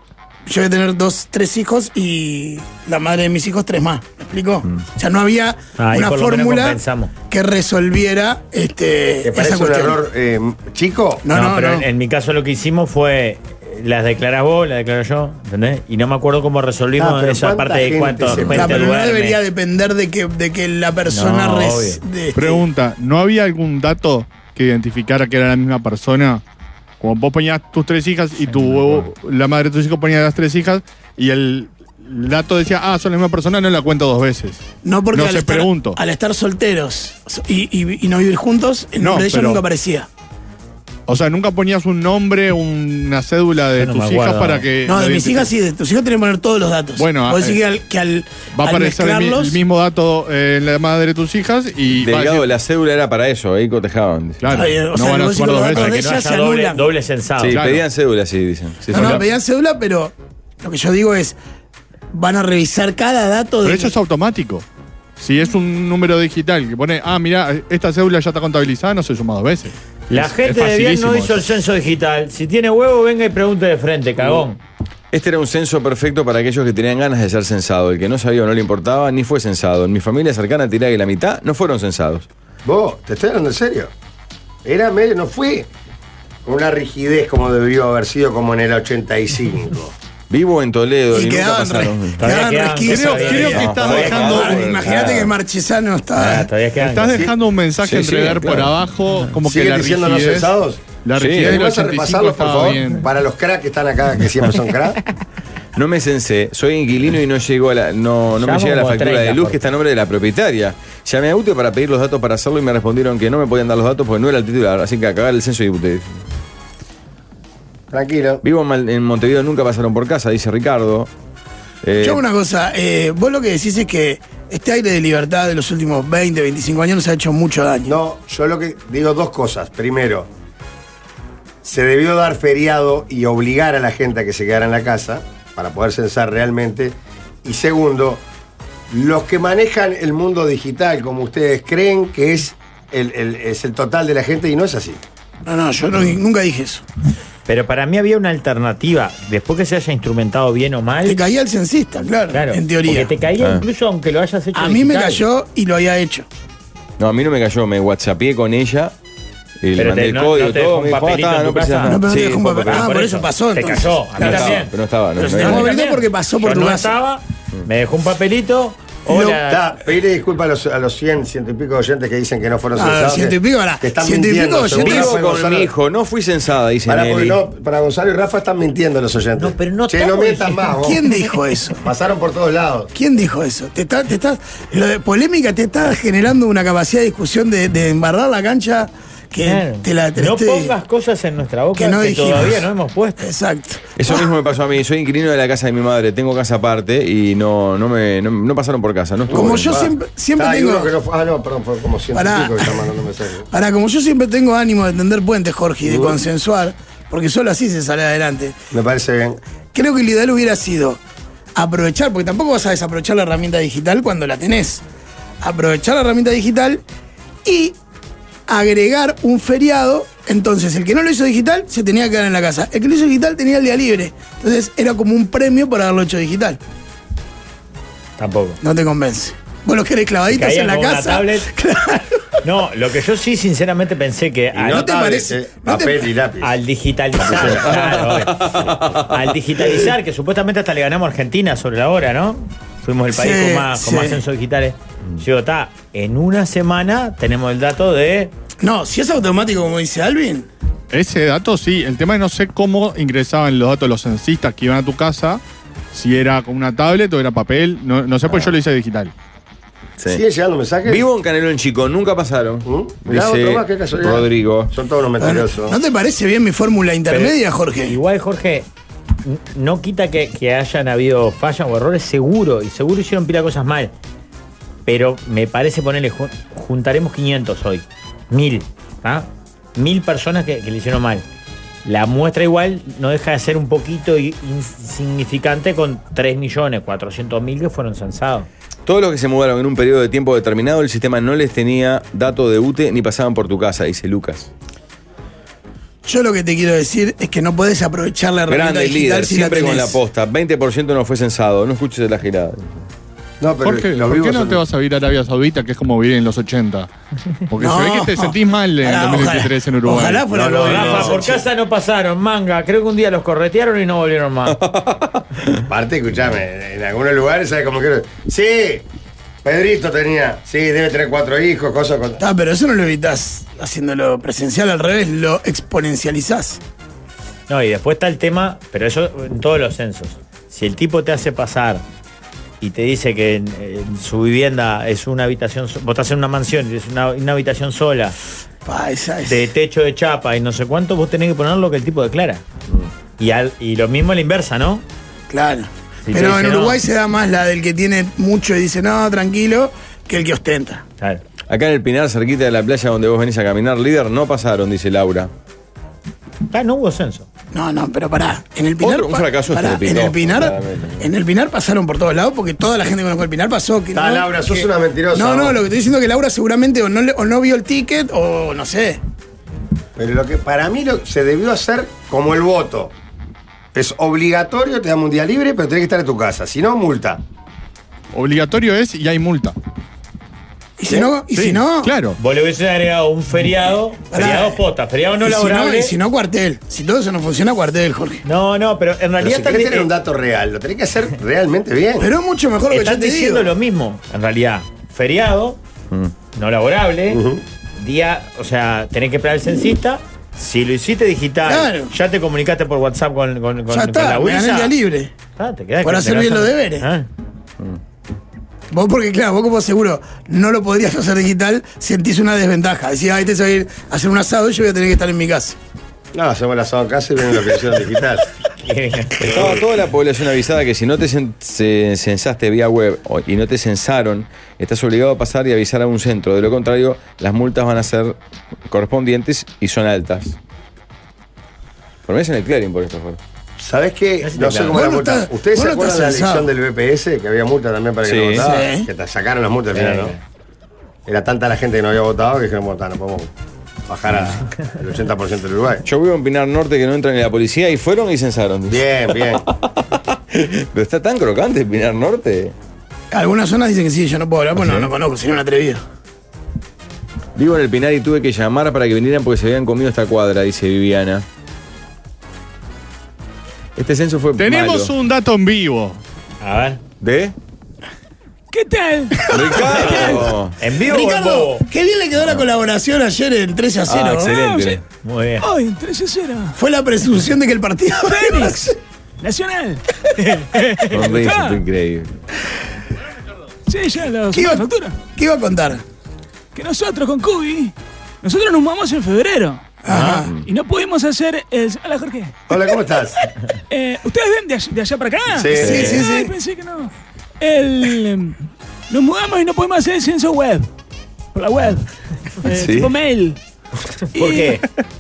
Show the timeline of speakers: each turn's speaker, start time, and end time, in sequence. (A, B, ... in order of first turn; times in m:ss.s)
0:00.5-0:10.0 A
0:05.8-0:07.1 B
0:09.2-0:11.2 C
0:11.2-0:11.9 A
0:11.3-0:19.4 B
0:17.0-0:18.9 C
0:18.4-0:22.6 A
0:21.1-0:22.0 B
0:22.4-0:26.4 D
0:27.0-0:34.6 D
0:34.8-0:40.1 A
0:35.1-0:36.0 D
0:39.0-0:39.6 D
0:41.1-0:45.5 D
0:43.8-0:44.7 B
0:44.8-0:49.6 A
0:47.0-0:47.6 D
0:48.6-0:52.5 D
0:51.9-0:54.6 E
0:54.4-0:56.0 D
0:54.5-0:56.9 A
0:55.7-0:57.6 B
0:57.4-0:59.2 E
0:57.5-0:57.8 D
0:58.9-0:59.2 D
0:58.9-1:01.4 A
1:02.1-1:03.9 A
1:03.6-1:04.6 D
1:05.2-1:11.5 D
1:10.1-1:14.6 B
1:15.1-1:22.3 E
1:22.6-1:23.9 C
1:24.6-1:25.7 C
1:26.4-1:30.0 C
1:30.3-1:32.2 E
1:31.1-1:36.5 A
1:32.2-1:34.2 B
1:32.8-1:34.7 D
1:33.4-1:35.3 E
1:36.2-1:37.3 B
1:36.8-1:43.1 D
1:37.8-1:38.8 E
1:39.5-1:40.9 C
1:41.2-1:41.6 E
1:41.4-1:45.0 C
1:45.8-1:56.1 E
1:48.4-1:49.6 B
1:57.9-1:58.4 C
1:58.4-2:01.1 E
2:01.8-2:02.2 E
2:02.0-2:08.0 A
2:07.9-2:10.3 C
2:11.6-2:18.2 C
2:18.9-2:25.0 C
2:25.4-2:26.8 A
2:27.5-2:31.2 B
2:31.0-2:33.1 A
2:32.3-2:35.2 B
2:33.4-2:33.6 E
2:34.5-2:36.3 A
2:37.0-2:38.9 E
2:39.6-2:42.9 E
2:39.8-2:42.1 B
2:41.9-2:44.7 A
2:42.6-2:49.6 B
2:44.2-2:45.7 E
2:45.2-2:47.0 A
2:49.1-2:49.4 A
2:49.5-2:55.7 C
2:52.8-2:55.1 A
2:54.7-2:57.4 E
2:56.9-3:01.0 C
2:59.4-3:00.8 B
3:00.8-3:01.8 A
3:01.8-3:02.9 C
3:02.9-3:10.7 A
3:09.4-3:13.3 B
3:11.8-3:12.7 A
3:13.2-3:14.3 A
3:14.0-3:19.8 E
3:19.3-3:23.5 C
3:19.3-3:20.9 A
3:22.1-3:22.9 A
3:23.5-3:28.6 A
3:25.9-3:26.2 C
3:28.7-3:29.4 C
3:29.7-3:31.0 A
3:31.6-3:34.8 A
3:35.4-3:36.8 A
3:37.4-3:37.8 A
3:38.5-3:46.6 A
3:48.2-3:48.6 B
3:48.6-3:52.2 A
3:50.3-3:51.5 B
3:52.4-3:54.9 B
3:54.5-3:56.5 C
3:54.7-3:56.1 A
3:56.4-4:08.3 B
3:57.3-3:57.7 C
3:57.4-3:59.2 E
4:03.1-4:04.2 A
4:08.6-4:10.5 A
4:10.9-4:15.4 D
4:15.9-4:19.1 D
4:18.3-4:18.6 E
4:20.1-4:21.1 C
4:20.8-4:24.7 E
4:22.6-4:25.8 C
4:25.2-4:28.0 A
4:27.1-4:28.7 B
4:29.2-4:33.9 B
4:34.9-4:41.2 B
4:41.8-4:48.5 B
4:48.9-4:54.5 E
4:56.0-5:00.0 A
4:58.5-5:02.8 E
5:03.4-5:04.6 C
5:03.6-5:06.9 D
5:07.5-5:10.3 D
5:07.6-5:11.4 A
5:10.3-5:11.4 C
5:10.6-5:14.6 B
5:14.5-5:15.2 E
5:15.7-5:18.9 C
5:19.4-5:22.2 C
5:22.2-5:26.6 A
5:27.5-5:31.8 B
5:32.6-5:38.2 B
5:38.7-5:39.5 A
5:39.3-5:42.4 B
5:43.2-5:44.8 B
5:45.3-5:50.8 A
5:46.0-5:46.8 B
5:51.5-5:55.3 E
5:56.5-5:57.3 B
5:57.5-6:09.0 A
5:58.8-6:01.1 E
6:03.9-6:05.6 C
6:10.0-6:12.9 C
6:13.7-6:17.2 C
6:18.1-6:19.6 D
6:20.8-6:21.9 A
6:21.3-6:22.2 D
6:22.2-6:26.0 B
6:24.1-6:24.6 A
6:25.2-6:28.2 A
6:28.2-6:29.9 B
6:29.2-6:32.1 C
6:32.0-6:33.5 A
6:32.7-6:35.6 B
6:36.3-6:37.2 B
6:37.1-6:37.4 C
6:37.8-6:44.7 B
6:41.5-6:41.9 A
6:43.7-6:45.1 A
6:45.4-6:47.1 B
6:45.8-6:46.9 A
6:48.7-6:55.6 A
6:56.1-6:58.2 C
6:58.6-6:59.4 B
6:59.2-7:08.2 E
7:08.7-7:10.4 E
7:12.1-7:13.2 E
7:13.6-7:20.2 C
7:14.2-7:14.8 B
7:14.7-7:16.5 A
7:18.0-7:18.5 E
7:18.4-7:18.9 A
7:19.7-7:20.2 B
7:21.1-7:23.3 C
7:23.9-7:25.8 C
7:25.9-7:32.6 E
7:28.7-7:29.5 C
7:33.1-7:35.8 A
7:37.4-7:41.2 E
7:43.8-7:44.9 E
7:44.4-7:46.0 D
7:46.4-7:46.8 B
7:47.0-7:47.3 E
7:48.5-7:50.2 F
7:49.3-7:50.6 E
7:49.3-7:50.1 A
7:50.6-7:51.6 B
7:50.7-7:54.4 A
7:52.2-7:52.4 E
7:53.9-7:54.8 E
7:54.2-7:54.8 F
7:55.0-7:55.5 B
7:55.4-7:56.6 F
7:56.6-7:58.8 A
7:58.0-8:01.6 F
8:00.9-8:02.2 E
8:03.7-8:05.0 F
8:04.3-8:05.8 A
8:06.5-8:12.5 F
8:09.8-8:10.3 A
8:09.9-8:10.5 E
8:12.5-8:13.2 C
8:13.7-8:18.4 F
8:15.3-8:16.0 C
8:15.6-8:16.3 A
8:18.9-8:20.7 F
8:21.3-8:23.4 F
8:22.5-8:22.9 E
8:24.1-8:24.6 F
8:24.1-8:24.6 B